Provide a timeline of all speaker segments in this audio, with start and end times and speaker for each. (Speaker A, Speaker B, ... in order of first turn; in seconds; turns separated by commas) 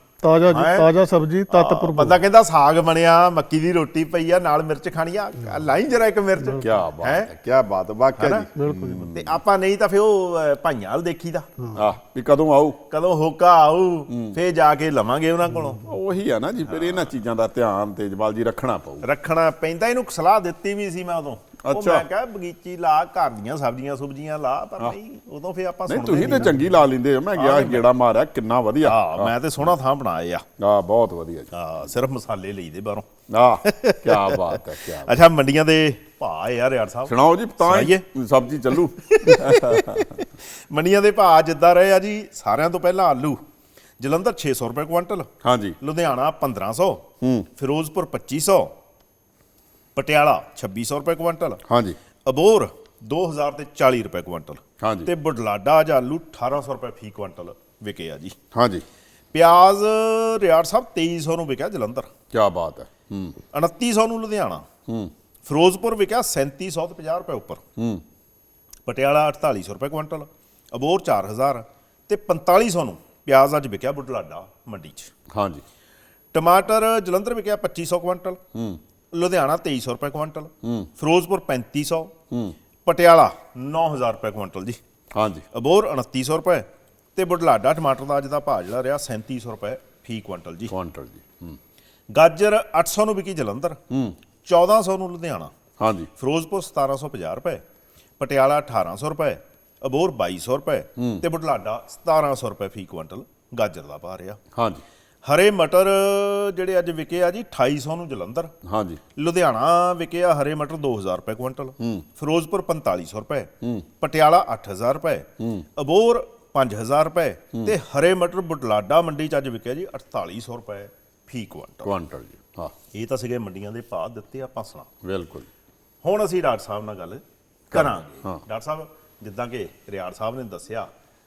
Speaker A: 0.2-2.2, Speaker B: 0.5-0.9, Speaker B: 1.5-7.3, Speaker A: 6.4-6.7, Speaker C: 6.6-9.4, Speaker B: 8.2-8.4, Speaker A: 8.5-9.1, Speaker B: 9.1-11.5, Speaker A: 11.6-11.8, Speaker C: 11.7-12.8, Speaker B: 12.9-15.8, Speaker C: 14.1-14.4, Speaker C: 15.8-19.1, Speaker B: 16.7-17.1, Speaker B: 19.0-26.7, Speaker C: 21.6-22.1, Speaker C: 25.9-29.3, Speaker B: 27.3-27.9, Speaker B: 28.8-30.4, Speaker C: 30.6-31.5, Speaker B: 31.5-33.1, Speaker C: 33.3-35.1, Speaker B: 33.6-38.0, Speaker C: 37.0-40.2, Speaker B: 39.0-43.4, Speaker B: 44.0-45.3, Speaker C: 45.4-45.8, Speaker B: 45.8-47.0, Speaker C: 47.2-47.5, Speaker B: 47.6-48.7, Speaker B: 49.9-51.6, Speaker C: 51.7-52.0, Speaker B: 52.2-58.4, Speaker C: 54.8-55.1, Speaker C: 58.5-58.9, Speaker B: 59.3-62.1, Speaker C: 62.3-63.4, Speaker B: 63.5-64.7, Speaker C: 64.9-65.1, Speaker B: 65.5-67.6, Speaker C: 67.8-68.0, Speaker B: 68.8-75.1, Speaker C: 75.3-75.6, Speaker B: 76.3-78.4, Speaker C: 78.5-78.8, Speaker B: 79.1-82.1, Speaker C: 80.6-80.9, Speaker C: 82.3-82.5, Speaker B: 82.8-84.8, Speaker C: 85.1-85.4, Speaker B: 85.5-90.7, Speaker C: 90.7-91.6, Speaker B: 92.1-93.8, Speaker C: 93.9-94.2, Speaker B: 94.4-95.5, Speaker C: 95.8-96.1, Speaker B: 96.2-97.6, Speaker B: 98.2-104.4, Speaker C: 101.0-101.2, Speaker C: 104.5-104.8, Speaker B: 105.2-108.5, Speaker C: 108.6-109.0, Speaker B: 109.2-121.9, Speaker C: 111.8-112.0, Speaker C: 113.6-113.9, Speaker C: 115.4-115.7, Speaker C: 121.8-122.7, Speaker B: 122.9-124.9, Speaker C: 125.0-125.5, Speaker B: 126.0-130.9, Speaker C: 127.7-128.4